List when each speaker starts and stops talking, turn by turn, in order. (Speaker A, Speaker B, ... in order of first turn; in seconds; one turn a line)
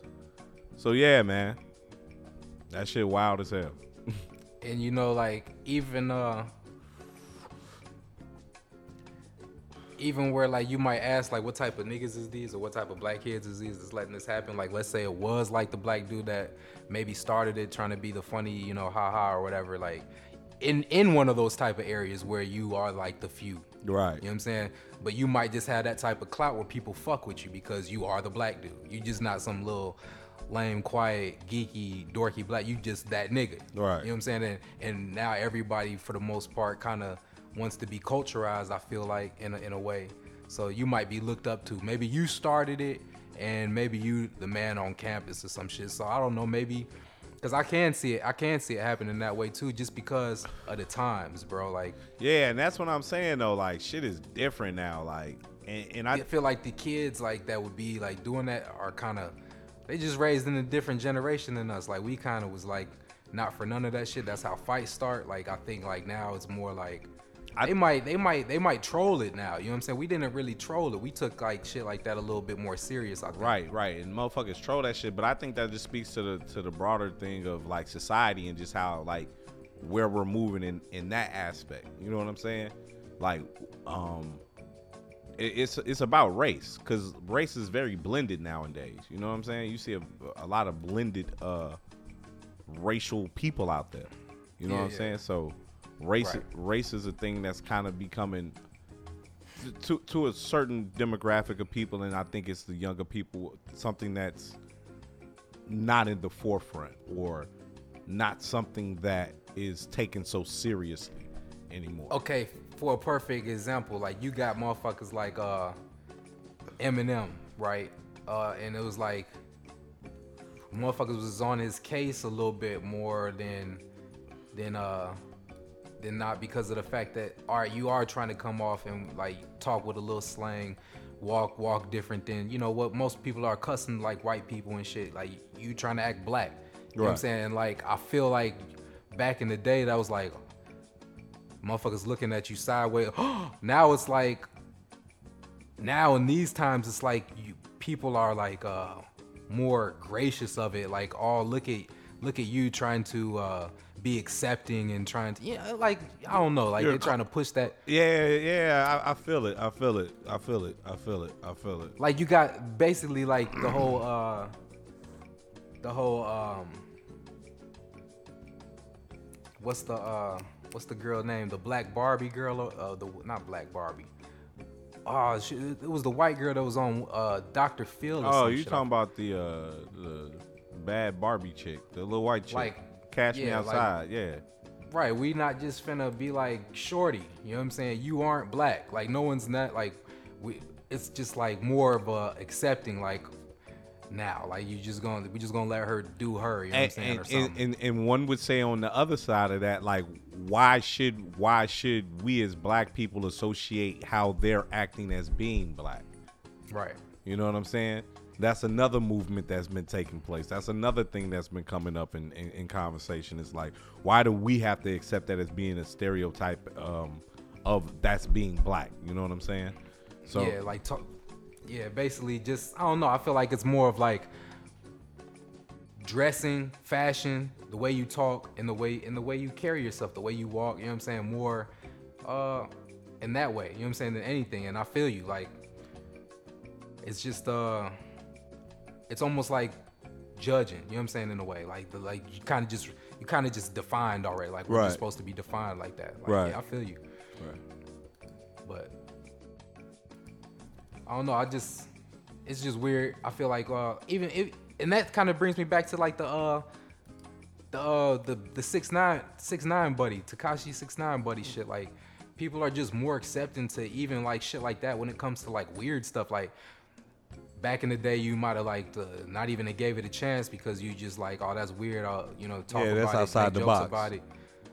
Speaker A: 0.8-1.6
Speaker A: 2.7-4.2
Speaker B: 4.6-6.5
Speaker B: 10.0-20.1
Speaker B: 20.6-23.7
Speaker A: 23.8-24.2
Speaker B: 24.2-30.0
Speaker B: 30.5-46.9
Speaker A: 33.7-34.1
Speaker B: 47.4-52.0
Speaker A: 52.2-56.3
Speaker B: 56.1-59.4
Speaker B: 59.9-67.1
Speaker B: 67.6-73.6
Speaker A: 73.3-84.4
Speaker A: 85.4-91.8
Speaker A: 92.7-98.6
Speaker B: 94.7-95.2
Speaker B: 96.2-96.5
Speaker A: 99.6-104.6
Speaker A: 105.7-107.5
Speaker A: 108.1-112.2
Speaker B: 112.1-115.8
Speaker B: 116.8-119.3
Speaker B: 120.7-123.8
Speaker B: 124.5-125.2
Speaker B: 126.0-140.4
Speaker A: 137.0-137.2
Speaker B: 141.6-144.5
Speaker B: 145.8-157.8
Speaker A: 156.8-157.2
Speaker A: 157.8-162.0
Speaker B: 162.0-164.5
Speaker A: 163.6-163.9
Speaker B: 165.8-166.8
Speaker B: 169.6-174.1
Speaker B: 175.1-178.8
Speaker A: 178.2-184.4
Speaker B: 182.5-183.9
Speaker B: 184.9-193.3
Speaker B: 194.1-197.6
Speaker A: 196.7-206.1
Speaker B: 206.7-207.0
Speaker A: 207.2-219.8
Speaker A: 220.3-220.6
Speaker B: 220.3-221.1
Speaker B: 221.7-224.3
Speaker B: 226.0-231.7
Speaker B: 232.2-232.7
Speaker B: 233.2-235.5
Speaker B: 237.0-237.9
Speaker B: 239.1-239.8
Speaker B: 240.4-247.0
Speaker A: 244.7-245.0
Speaker A: 246.3-246.6
Speaker B: 248.7-248.9
Speaker B: 251.1-251.9
Speaker B: 252.5-256.7
Speaker B: 257.7-266.5
Speaker B: 267.6-274.2
Speaker A: 272.7-274.1